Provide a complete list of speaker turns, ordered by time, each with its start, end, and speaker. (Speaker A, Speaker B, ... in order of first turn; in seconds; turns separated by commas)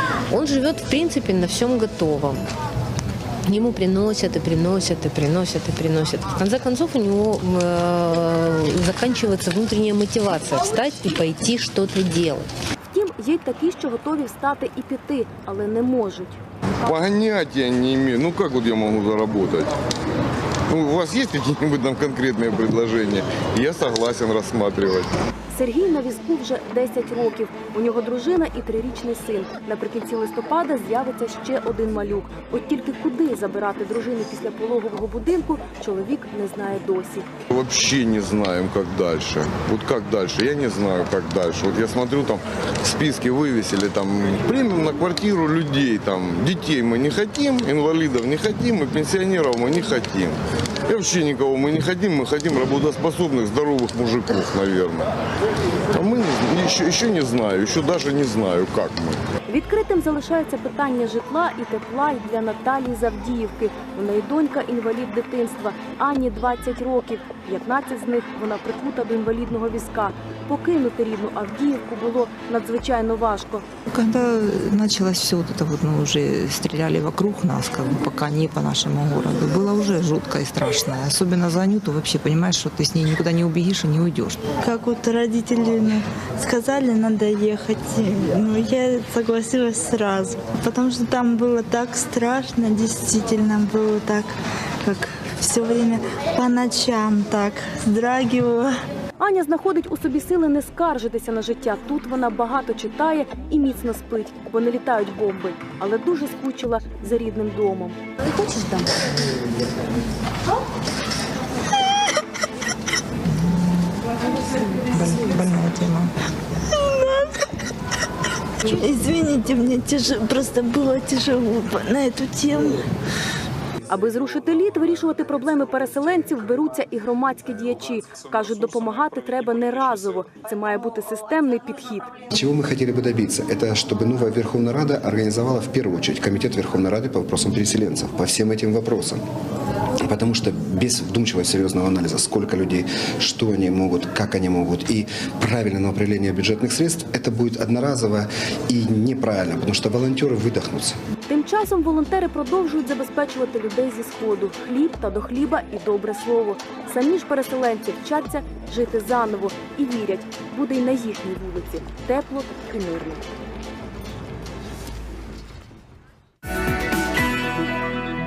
Speaker A: 0.3-2.5, Speaker A: 3.5-12.5, Speaker B: 12.9-16.4, Speaker C: 16.8-19.7, Speaker C: 20.7-25.2, Speaker B: 25.5-37.3, Speaker C: 37.5-55.1, Speaker C: 55.9-59.2, Speaker B: 59.5-73.6, Speaker D: 73.9-84.5, Speaker E: 84.5-98.8, Speaker B: 99.2-108.0, Speaker D: 113.2-114.0, Speaker D: 114.9-116.1, Speaker E: 116.8-117.3, Speaker E: 118.7-122.8, Speaker B: 123.9-132.1, Speaker F: 132.3-139.2, Speaker F: 140.0-151.0, Speaker B: 151.3-163.2